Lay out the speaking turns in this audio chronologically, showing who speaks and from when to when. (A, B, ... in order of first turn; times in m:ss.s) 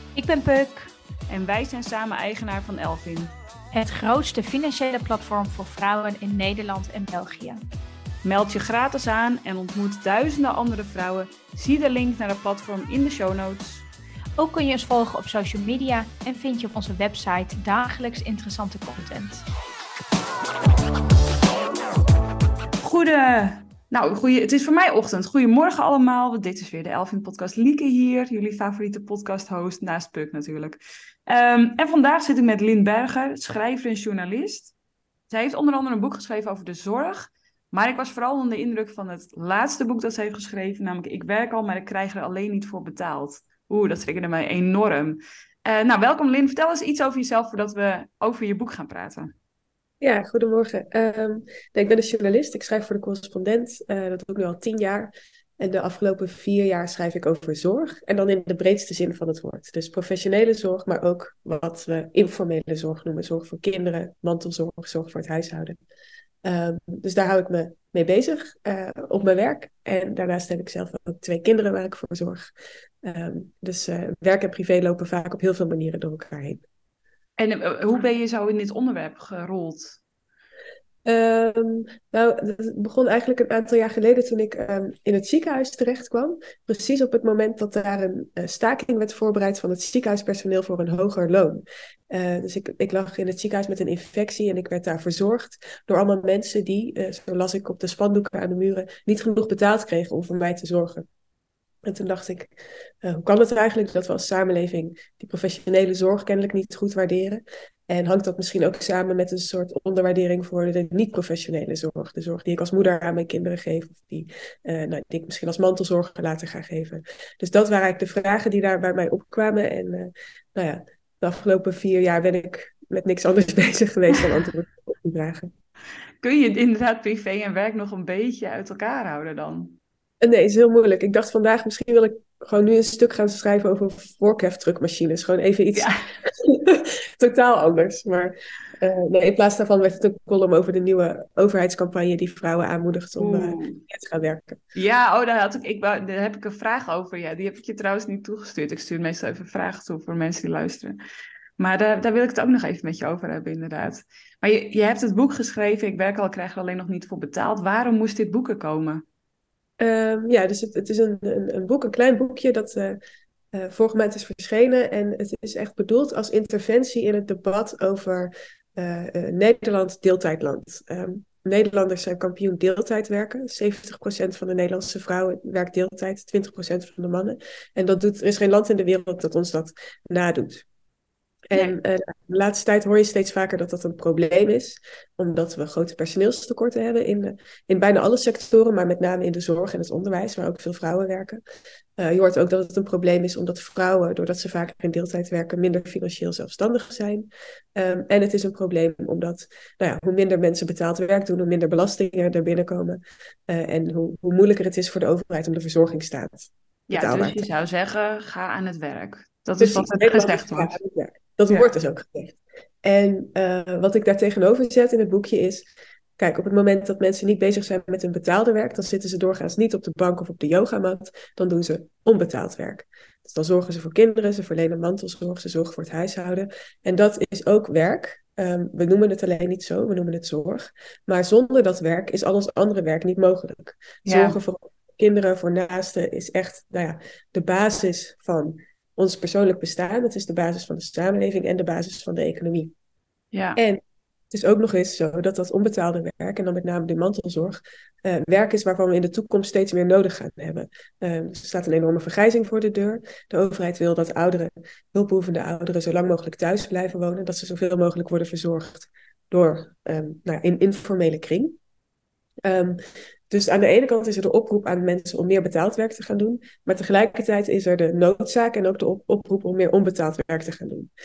0:00.2-0:00.9 A
0:01.3-0:03.3 B
0:03.7-0:07.6 A
0:08.2-0:13.8 B
0:14.4-0:19.4 A
0:22.8-0:34.7 B
0:35.3-0:49.3 B
0:50.0-1:05.8 C
1:06.4-1:12.5 C
1:13.0-1:16.6 C
1:17.4-1:20.0 B
1:21.0-1:41.0 C
1:41.8-2:05.5 C
2:06.2-2:09.8 B
2:10.2-2:24.6 C
2:23.2-2:23.8 B
2:24.7-2:31.0 B
2:31.6-2:39.0 B
2:39.8-2:43.0 C
2:43.5-3:00.6 C
3:01.5-3:11.4 C
3:12.0-3:27.4 C
3:26.9-3:30.7 B
3:29.6-3:35.6 C
3:36.2-4:02.7 C
3:54.0-3:54.4 B
4:03.3-4:03.6 B
4:03.6-4:21.5 C
4:22.4-4:22.8 C
4:23.3-4:30.9 C